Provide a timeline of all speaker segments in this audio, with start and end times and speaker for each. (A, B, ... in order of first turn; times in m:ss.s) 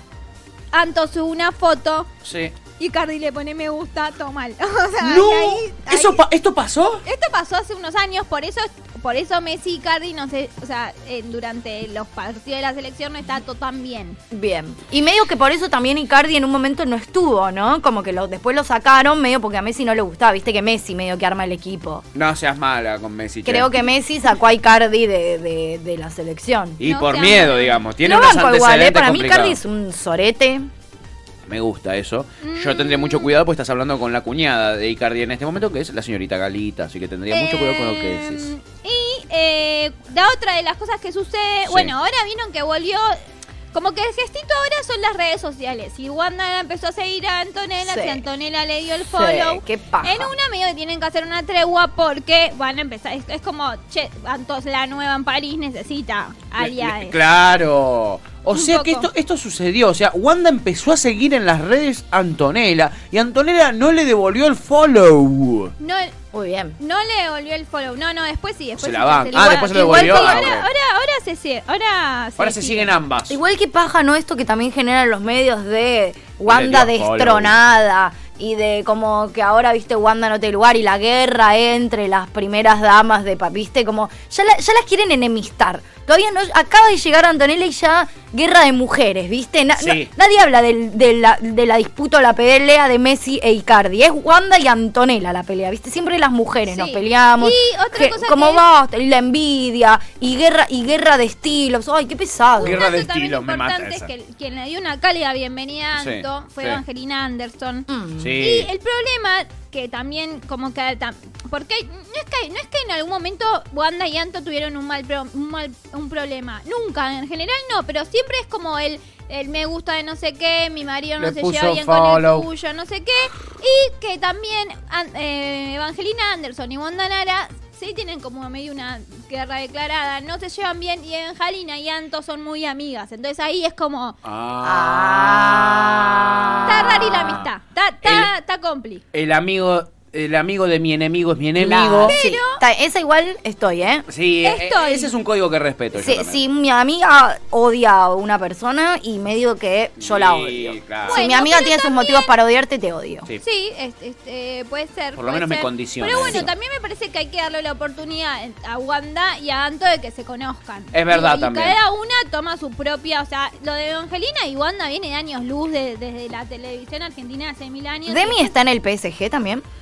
0:00.7-0:02.1 A
0:02.2-0:02.5 B
0:02.8-0:06.2 A
0:05.0-0:07.0 B
0:07.0-0:14.2 A
0:14.3-0:22.0 C
0:22.1-0:23.7 B
0:23.4-0:26.8 C
0:26.8-0:29.6 B
0:26.8-0:27.8 A
0:28.0-0:30.7 C
0:31.5-0:38.5 B
0:32.4-0:33.3 A
0:37.3-0:43.2 A
0:41.6-0:41.9 B
0:43.7-0:57.2 A
0:47.8-0:48.2 C
0:49.1-0:50.3 C
0:56.6-1:05.7 B
0:58.5-0:59.1 A
1:05.8-1:06.1 A
1:06.3-1:06.8 C
1:06.8-1:12.9 A
1:08.8-1:10.7 B
1:09.3-1:10.6 C
1:12.4-1:13.4 B
1:13.3-1:42.8 C
1:16.5-1:17.6 B
1:29.8-1:30.1 B
1:36.7-1:38.6 A
1:42.6-2:14.2 A
1:42.6-1:44.1 B
1:46.0-1:46.8 B
1:47.9-1:48.4 C
1:48.2-1:48.7 B
2:01.2-2:02.5 B
2:14.2-2:17.5 B
2:14.6-2:17.1 C
2:16.7-2:19.0 A
2:18.0-2:18.3 B
2:19.1-2:22.2 B
2:21.6-2:24.1 C
2:22.0-2:22.6 A
2:24.1-2:26.4 B
2:24.4-2:25.1 A
2:25.9-2:33.3 C
2:30.0-2:31.3 B
2:31.1-2:32.3 A
2:33.4-2:48.5 A
2:35.2-2:36.5 B
2:36.2-2:36.5 C
2:40.9-2:41.8 B
2:48.1-2:49.6 C